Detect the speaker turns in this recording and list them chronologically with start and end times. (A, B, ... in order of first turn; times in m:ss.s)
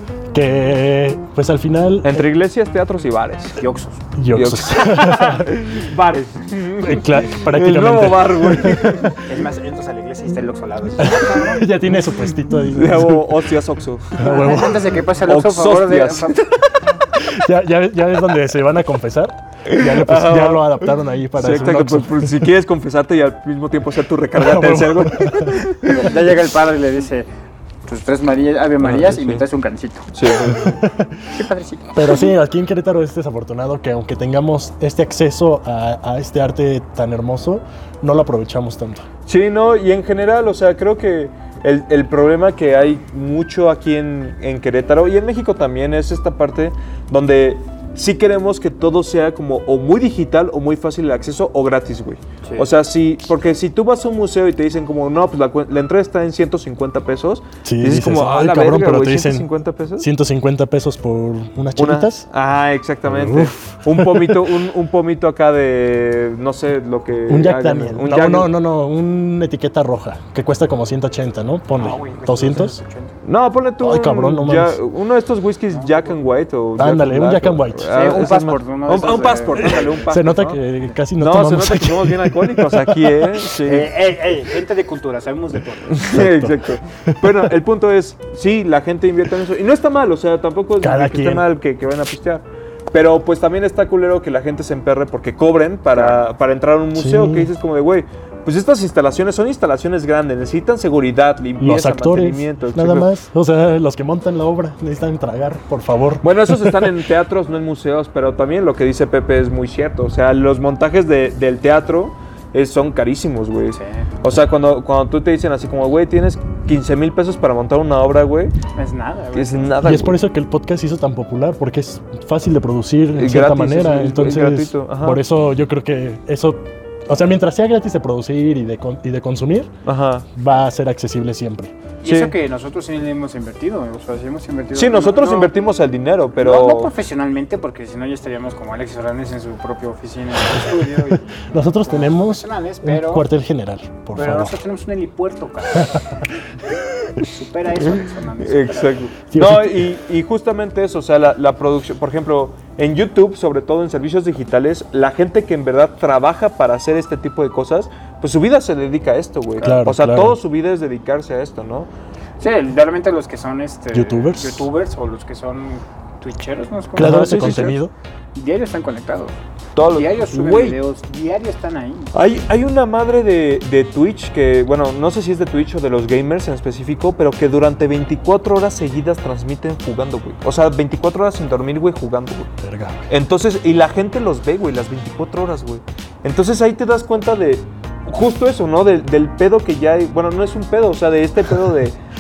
0:00.3-0:02.3 A
0:02.0-0:03.6 B
0:03.6-0:04.0 C
0:04.2-0:05.6 A
0:04.3-0:09.2 B
0:06.8-0:09.1 A
0:09.2-0:11.6 C
0:11.0-0:13.4 A
0:12.7-0:14.6 B
0:14.2-0:15.0 A
0:14.2-0:16.4 C
0:15.2-0:16.8 B
0:17.2-0:22.5 A
0:19.7-0:26.1 B
0:24.4-0:25.7 A
0:25.8-0:27.3 C
0:27.9-0:30.1 C
0:28.8-0:29.4 B
0:30.1-0:30.8 B
0:30.4-0:31.3 A
0:31.3-0:32.3 C
0:31.9-0:39.0 A
0:39.3-1:00.1 B
0:57.6-1:02.3 A
1:01.8-1:08.5 B
1:03.1-1:04.4 A
1:07.3-1:12.8 A
1:11.8-1:13.2 C
1:13.2-1:20.6 B
1:13.8-1:14.8 A
1:15.8-1:16.1 C
1:16.8-1:17.9 A
1:17.9-1:20.1 C
1:20.1-1:23.4 A
1:21.2-1:23.9 B
1:23.6-1:26.0 C
1:25.9-1:43.1 B
1:26.1-1:27.4 A
1:30.8-1:31.5 A
1:35.9-1:36.3 C
1:37.0-1:37.5 A
1:41.6-1:47.0 A
1:46.2-1:58.5 B
1:53.7-1:54.1 C
1:58.8-1:59.7 C
1:59.4-2:00.2 B
1:59.8-2:09.7 A
2:03.2-2:05.2 B
2:09.8-2:10.3 B
2:10.4-2:11.8 A
2:12.0-2:15.5 C
2:12.0-2:12.4 B
2:14.7-2:16.9 B
2:16.4-2:23.3 C
2:21.2-2:24.6 A
2:24.2-2:26.1 C
2:27.2-2:29.0 C
2:28.4-2:41.9 B
2:29.3-2:29.9 A
2:39.6-2:40.4 A
2:42.4-2:47.8 C
2:43.9-2:44.7 A
2:47.0-2:47.8 B
2:47.0-2:47.9 A
2:48.4-2:49.3 C
2:49.8-2:50.8 B
2:49.9-2:52.1 C
2:52.1-3:02.5 B
3:02.6-3:03.1 A
3:03.1-3:12.0 B